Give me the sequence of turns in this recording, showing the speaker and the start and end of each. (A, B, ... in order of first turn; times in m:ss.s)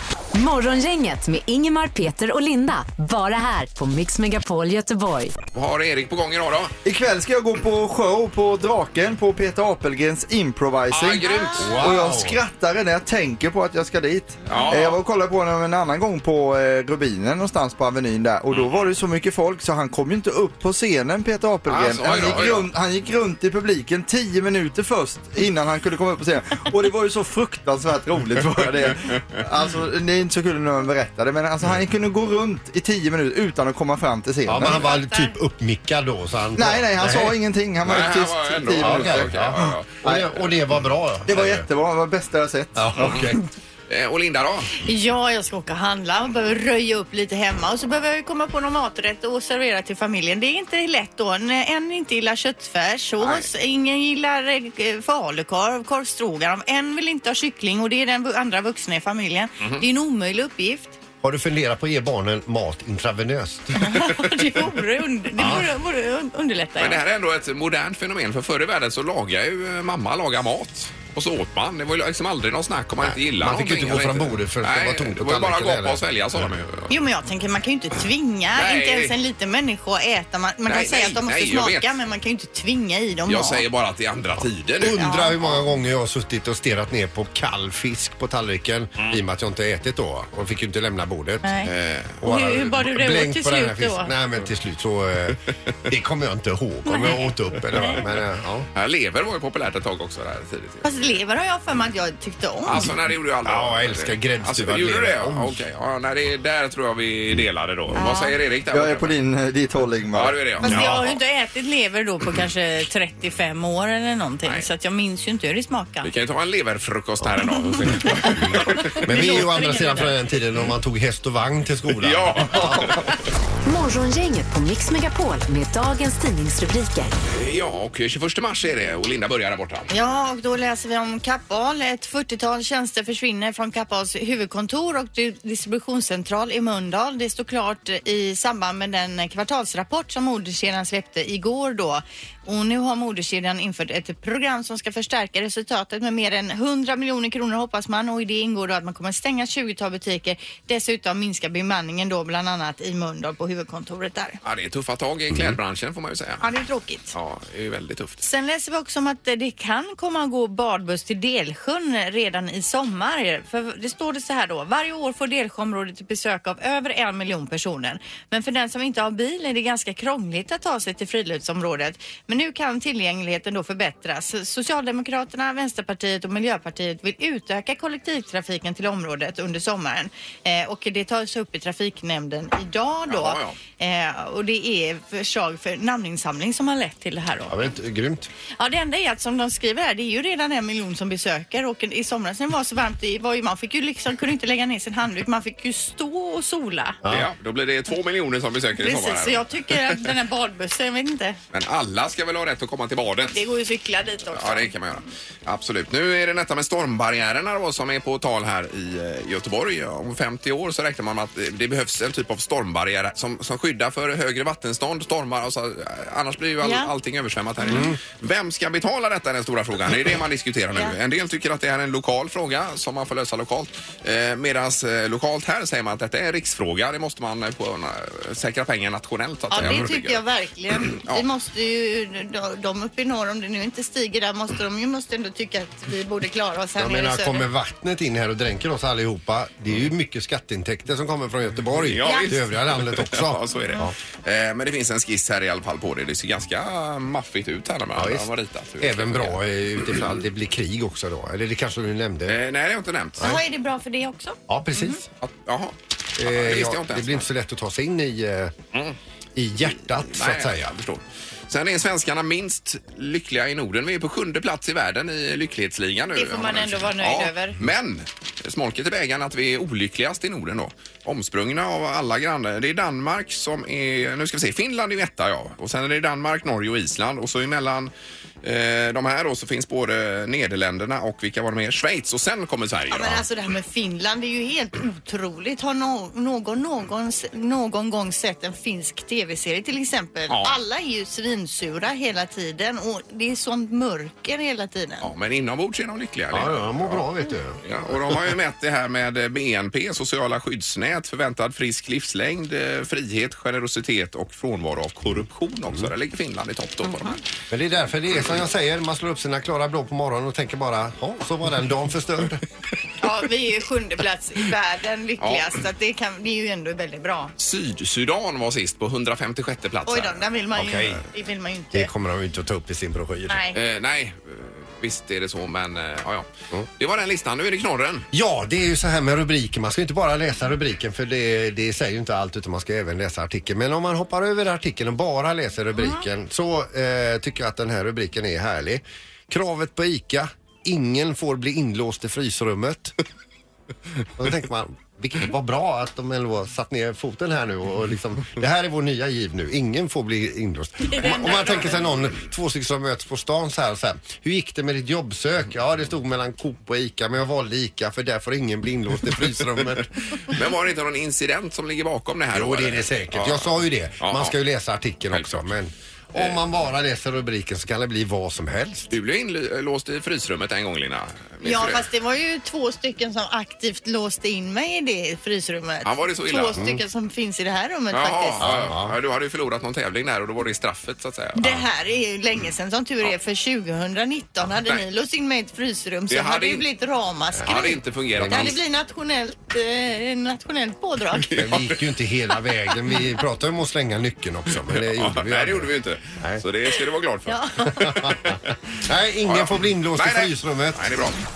0:00.3-0:05.4 A
0:05.5-0:06.8 B
0:06.8-0:34.9 C
0:10.9-0:11.9 B
0:11.3-0:11.7 D
0:11.6-0:12.4 E
0:14.5-0:15.0 B
0:21.7-0:22.7 B
0:34.4-0:37.4 E
0:34.6-0:35.4 D
0:36.6-0:40.3 C
0:37.8-0:40.0 B
0:38.8-0:41.7 E
0:41.3-0:43.4 C
0:42.8-0:43.4 E
0:43.0-0:43.3 B
0:43.9-0:44.7 B
0:44.8-1:01.0 D
0:53.2-0:53.5 B
1:01.2-1:03.8 E
1:03.8-1:07.0 D
1:05.4-1:05.7 E
1:06.8-1:16.9 B
1:13.0-1:16.5 E
1:16.9-1:23.6 D
1:18.6-1:19.2 B
1:20.7-1:21.9 B
1:23.3-1:25.6 B
1:24.8-1:31.5 E
1:24.9-1:25.3 D
1:31.4-1:31.7 D
1:31.6-1:32.2 B
1:32.2-1:38.7 E
1:32.2-1:34.1 D
1:36.9-1:37.2 D
1:37.8-1:38.0 D
1:37.9-1:38.2 B
1:38.8-1:41.1 B
1:40.8-1:42.9 D
1:42.6-1:49.2 B
1:43.4-1:45.6 E
1:48.0-1:48.4 D
1:48.7-1:50.4 C
1:50.1-1:51.2 B
1:50.6-1:56.1 D
1:56.0-1:59.0 B
1:57.8-2:03.0 E
1:58.9-2:00.2 D
2:02.0-2:03.1 B
2:03.6-2:07.2 A
2:07.3-2:09.9 B
2:09.9-2:34.4 D
2:34.4-2:36.4 B
2:35.3-2:35.6 E
2:36.4-2:37.1 D
2:37.1-2:38.2 B
2:38.2-3:07.6 D
3:03.1-3:03.6 B
3:07.5-3:08.3 E
3:08.6-3:17.0 D
3:17.0-3:17.3 E
3:17.1-3:20.1 B
3:18.8-3:21.4 D
3:21.5-3:23.4 B
3:23.3-3:24.7 D
3:24.3-3:50.2 B
3:36.6-3:36.9 D
3:37.7-3:38.0 E
3:49.5-3:57.5 D
3:50.8-3:51.2 B
3:56.8-4:04.0 E
4:01.8-4:10.2 B
4:02.0-4:02.3 D
4:08.0-4:08.3 E
4:08.8-4:12.4 E
4:12.3-4:13.3 B
4:13.2-4:15.0 D
4:14.5-4:15.0 E
4:15.2-4:17.2 B
4:16.2-4:18.6 E
4:19.4-4:20.7 E
4:19.9-4:37.9 B
4:26.2-4:27.6 D
4:38.4-4:43.2 B
4:42.9-4:55.1 D
4:50.3-4:50.6 B
4:55.0-4:57.1 B
4:56.3-4:58.2 E
4:57.6-5:07.2 B
5:07.5-5:12.4 E
5:13.0-5:17.3 D
5:15.2-5:15.6 B
5:17.4-5:20.3 B
5:19.9-5:21.9 D
5:20.6-5:21.0 E
5:21.7-5:23.4 E
5:23.3-5:23.6 D
5:23.5-5:28.1 B
5:28.1-5:43.0 E
5:35.8-5:36.0 D
5:44.2-5:59.9 E
5:50.8-5:51.8 D
6:00.3-6:04.4 B
6:02.3-6:08.9 E
6:05.1-6:05.5 B
6:06.1-6:06.4 B
6:08.9-6:11.9 B
6:11.4-6:18.5 D
6:15.8-6:16.6 B
6:16.6-6:16.8 E
6:17.9-6:21.6 B
6:18.4-6:19.0 E
6:21.4-6:31.3 D
6:26.1-6:26.6 B
6:27.4-6:28.6 B
6:28.1-6:28.6 E
6:31.2-6:31.8 B
6:31.3-6:36.4 E
6:34.7-6:38.4 B
6:37.3-6:38.0 D
6:37.8-6:40.8 E
6:39.2-6:41.2 B